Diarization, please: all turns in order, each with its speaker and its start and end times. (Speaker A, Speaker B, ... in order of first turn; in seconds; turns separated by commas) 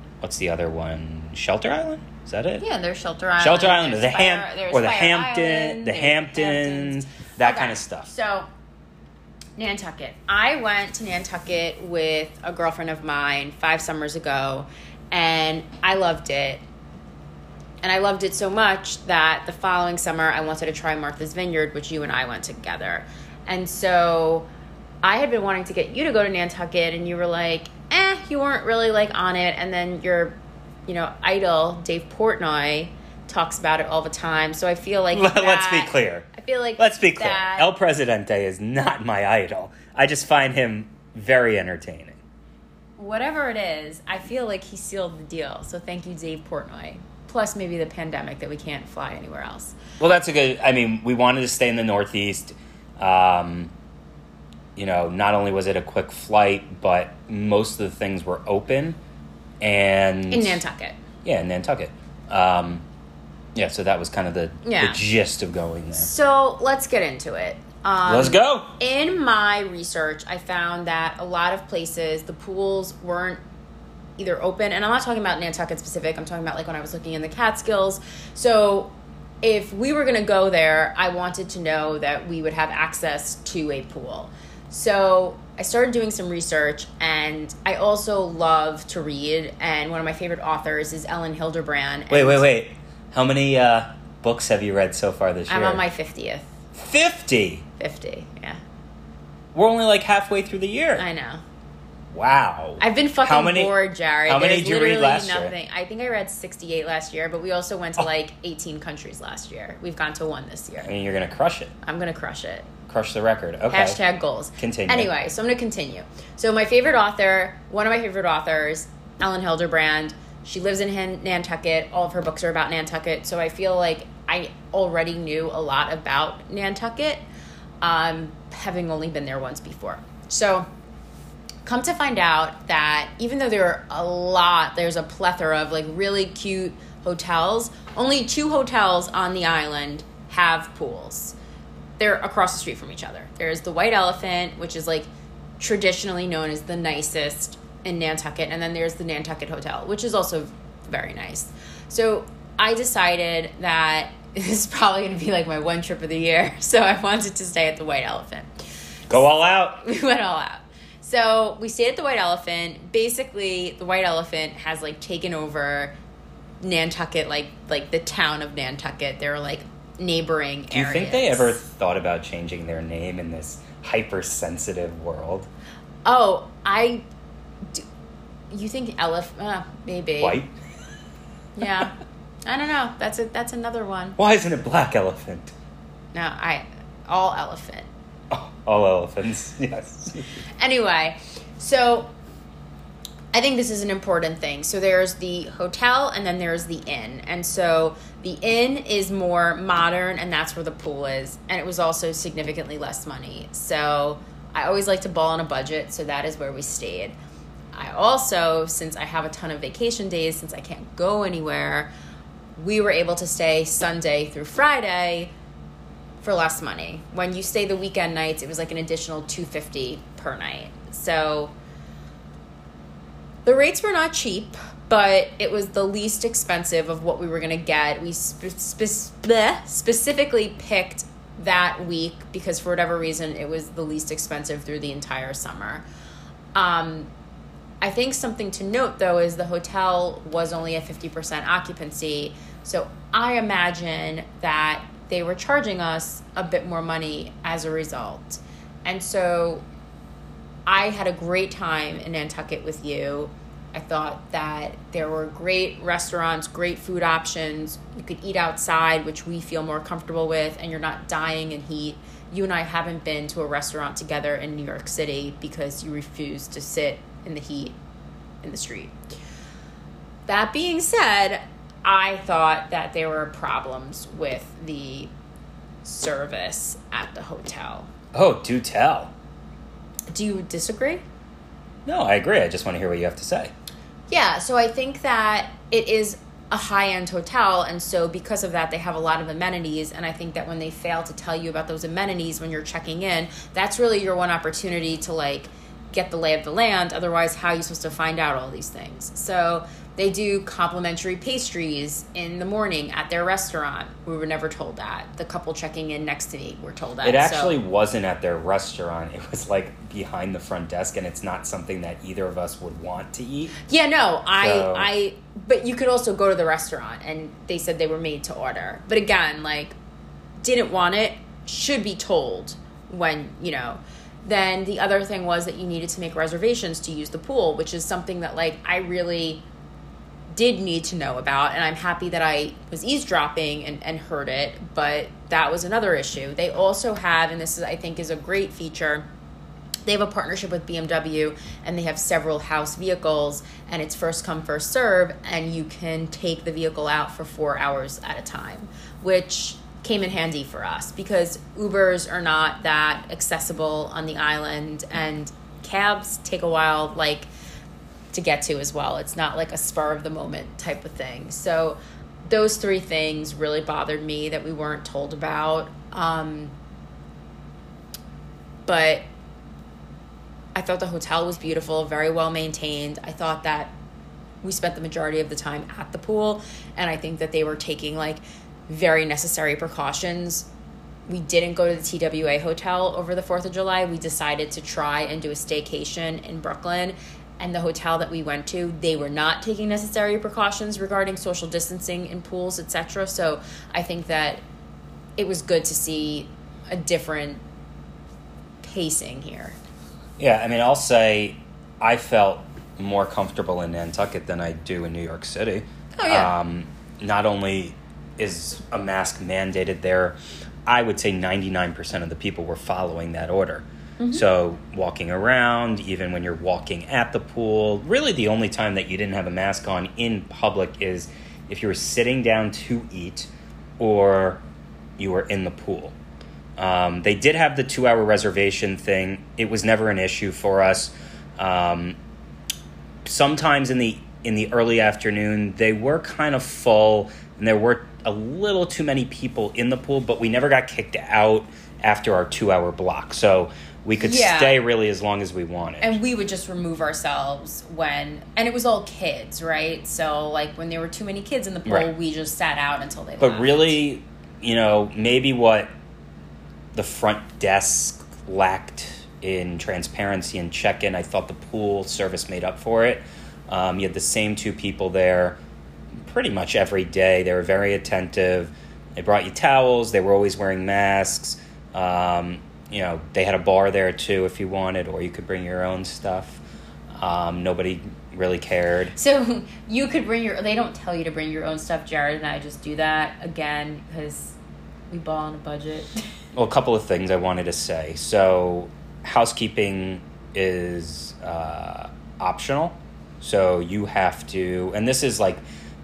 Speaker A: 0.2-2.6, Speaker B: 2.6-8.5, Speaker A: 3.4-8.1, Speaker B: 9.6-16.6, Speaker B: 17.8-24.5, Speaker B: 25.0-37.7, Speaker A: 35.1-42.2, Speaker B: 43.0-49.8, Speaker A: 50.0-53.7, Speaker A: 54.8-59.0, Speaker A: 59.6-60.6, Speaker B: 60.3-61.0, Speaker A: 61.2-62.8, Speaker A: 63.5-66.1, Speaker B: 64.6-65.0, Speaker B: 66.0-73.4, Speaker A: 68.0-68.8, Speaker B: 74.2-92.5, Speaker A: 92.1-95.8, Speaker B: 95.5-96.5, Speaker A: 96.8-97.7, Speaker B: 97.8-98.6, Speaker A: 99.5-101.0, Speaker B: 101.0-101.4, Speaker A: 102.1-103.7, Speaker B: 102.8-110.9, Speaker A: 104.3-105.5, Speaker A: 110.8-111.7, Speaker B: 111.8-112.7, Speaker A: 112.9-114.0, Speaker B: 113.7-127.2, Speaker A: 114.6-115.1, Speaker B: 127.8-130.7, Speaker B: 131.6-141.3, Speaker B: 142.0-145.1, Speaker B: 145.6-158.5, Speaker A: 159.1-159.8, Speaker B: 159.8-165.9, Speaker B: 166.6-171.6, Speaker A: 170.7-175.5, Speaker B: 176.1-177.0, Speaker B: 178.5-180.4, Speaker A: 180.2-180.5, Speaker B: 181.6-184.2, Speaker A: 184.2-185.5, Speaker B: 186.1-187.9, Speaker A: 188.3-190.2, Speaker B: 190.6-192.1, Speaker B: 193.3-207.2, Speaker B: 207.7-211.9, Speaker B: 212.6-215.3, Speaker B: 216.2-221.5, Speaker B: 223.4-235.8, Speaker B: 236.6-237.1, Speaker B: 237.8-249.6, Speaker B: 250.7-267.8, Speaker B: 268.4-268.9, Speaker B: 270.3-275.1, Speaker B: 275.8-277.9, Speaker A: 278.1-279.1, Speaker B: 280.1-281.0, Speaker A: 281.8-283.5, Speaker B: 284.1-307.6, Speaker A: 307.0-313.6, Speaker B: 313.6-319.7, Speaker A: 314.4-314.9, Speaker B: 320.4-329.4, Speaker B: 330.3-339.1, Speaker B: 339.8-357.3, Speaker B: 358.1-366.5, Speaker B: 368.7-369.1, Speaker B: 370.6-373.7, Speaker B: 374.4-380.5, Speaker B: 381.1-394.4, Speaker B: 395.2-397.4, Speaker B: 398.6-399.6, Speaker A: 400.2-424.4, Speaker B: 405.9-406.3, Speaker B: 414.0-414.2, Speaker A: 425.0-425.9, Speaker A: 426.6-432.0, Speaker A: 433.1-446.0, Speaker B: 444.0-444.6, Speaker B: 445.8-453.8, Speaker A: 453.2-455.7, Speaker A: 456.7-465.4, Speaker A: 466.0-476.4, Speaker A: 476.9-478.9, Speaker B: 478.9-484.4, Speaker B: 484.9-485.9, Speaker A: 486.3-495.4